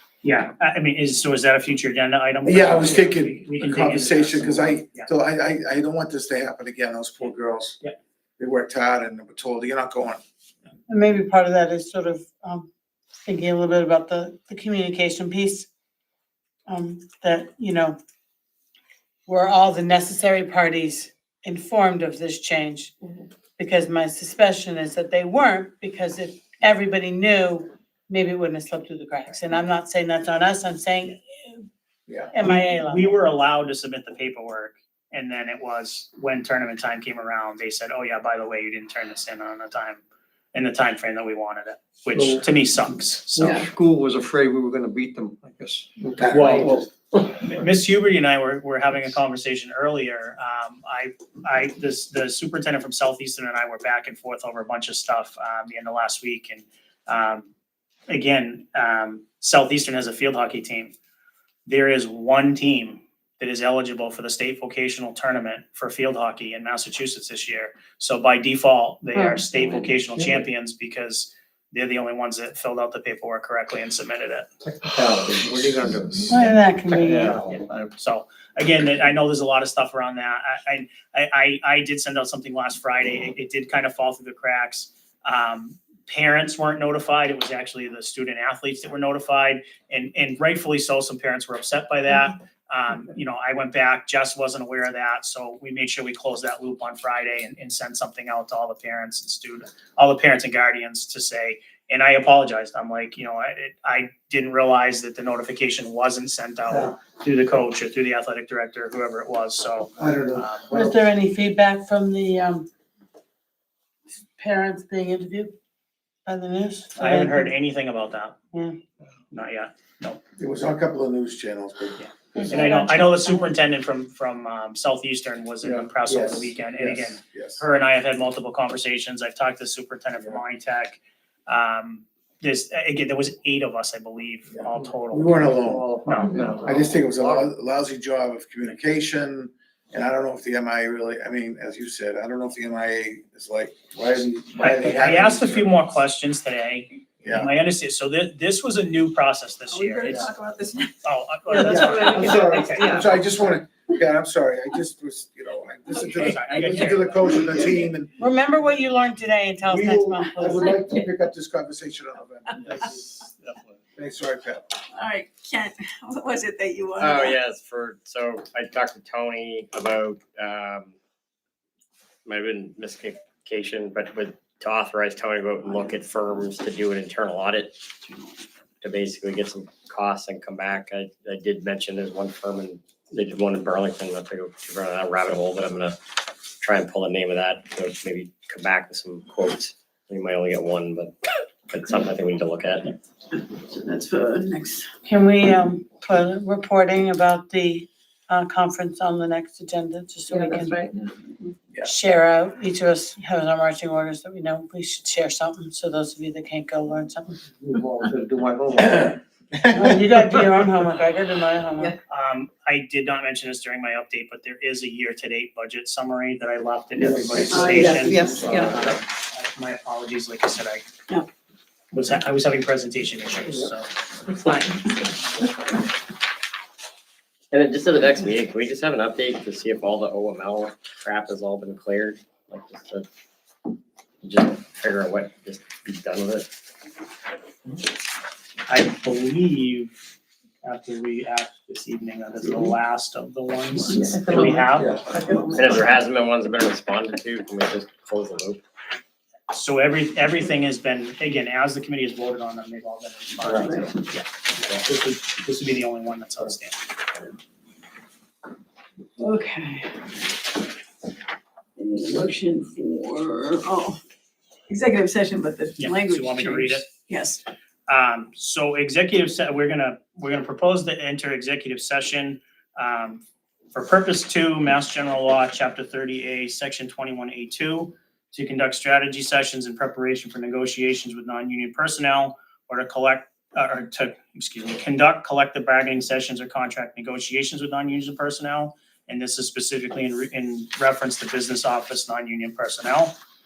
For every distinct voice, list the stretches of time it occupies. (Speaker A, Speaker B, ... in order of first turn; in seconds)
Speaker A: 0.2-5.1, 32.4-40.0, 40.5-43.6, 46.2-57.5, 58.1-60.9, 61.6-74.5, 77.5-110.7, 117.0-118.4, 119.3-120.2, 122.0-136.3, 144.6-150.3, 151.0-153.0, 156.0-157.8, 212.1-220.8, 221.9-223.9, 238.7-239.9, 240.6-244.9, 249.5-256.8, 265.8-266.9, 267.9-293.1
Speaker B: 2.4-7.8, 8.4-10.2, 32.1-32.3, 46.2-46.8, 110.0-111.0, 120.4-122.8, 125.6-127.6, 134.5-135.9, 136.5-145.7, 147.2-147.5, 150.0-150.3, 151.5-158.2, 159.6-162.9, 163.9-164.6, 208.8-210.2, 217.0-218.9, 244.7-245.3
Speaker C: 10.9-12.7, 13.2-15.7, 16.7-18.0, 19.3-22.9, 23.6-31.6, 32.3-33.1, 76.3-77.4, 110.7-112.7, 114.4-115.5, 116.2-117.5, 158.2-160.7, 195.0-200.8, 201.8-207.4, 209.7-211.9
Speaker D: 42.1-42.6, 43.3-46.9, 74.7-77.9, 135.6-137.5, 162.6-163.8, 207.6-209.2
Speaker E: 69.2-69.9, 149.7-150.9, 151.5-153.1, 164.9-167.4, 193.5-194.9, 200.3-201.2, 217.5-218.8, 243.9-245.9, 253.5-253.9, 259.2-260.1, 261.8-264.0, 264.7-267.4
Speaker F: 167.0-170.9, 172.2-177.8, 178.8-186.0, 186.6-191.1, 191.7-192.9, 227.5-233.0, 234.2-236.5, 245.5-248.6